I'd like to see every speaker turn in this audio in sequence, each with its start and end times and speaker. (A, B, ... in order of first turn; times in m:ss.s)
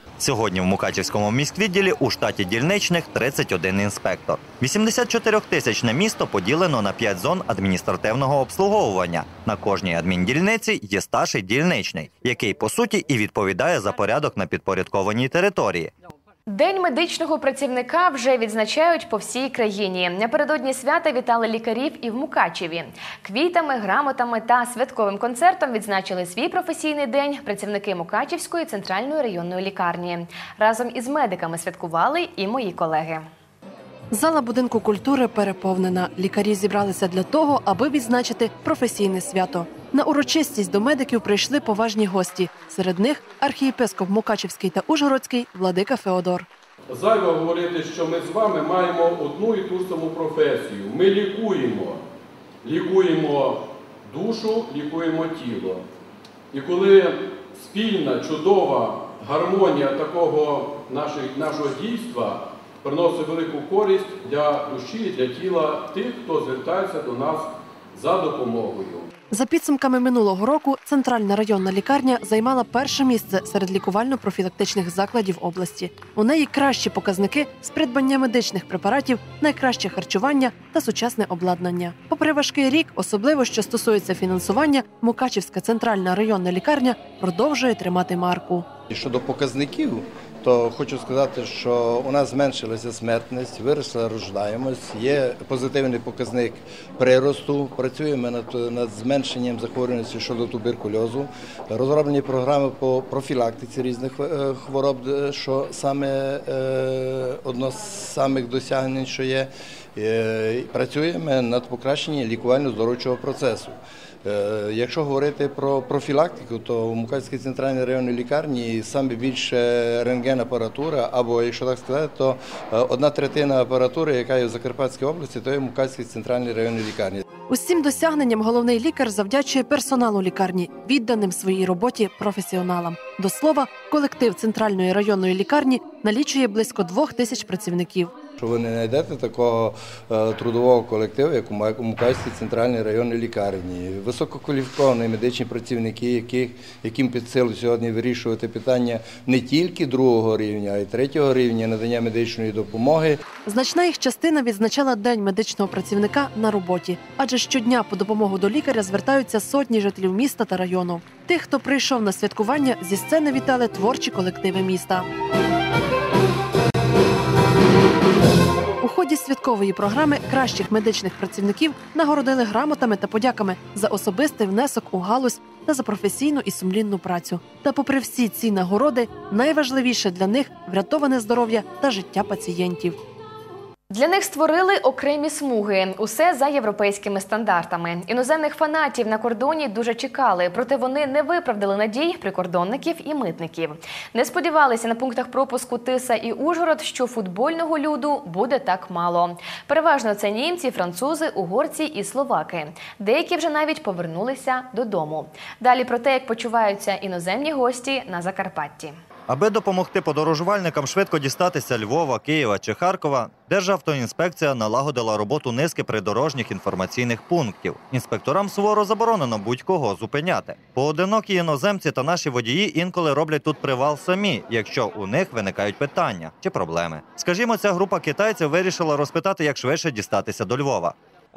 0:00.2-0:15.9 A
0:16.5-0:33.3 B
0:34.1-0:46.5 C
0:46.9-0:52.0 D
0:52.6-0:55.8 D
0:56.5-1:09.1 D
1:09.3-1:28.7 C
1:28.9-2:07.2 E
2:07.5-2:18.1 C
2:18.4-2:33.2 E
2:33.4-2:45.1 C
2:48.8-3:03.0 C
3:03.9-3:29.0 B
3:29.3-3:51.0 A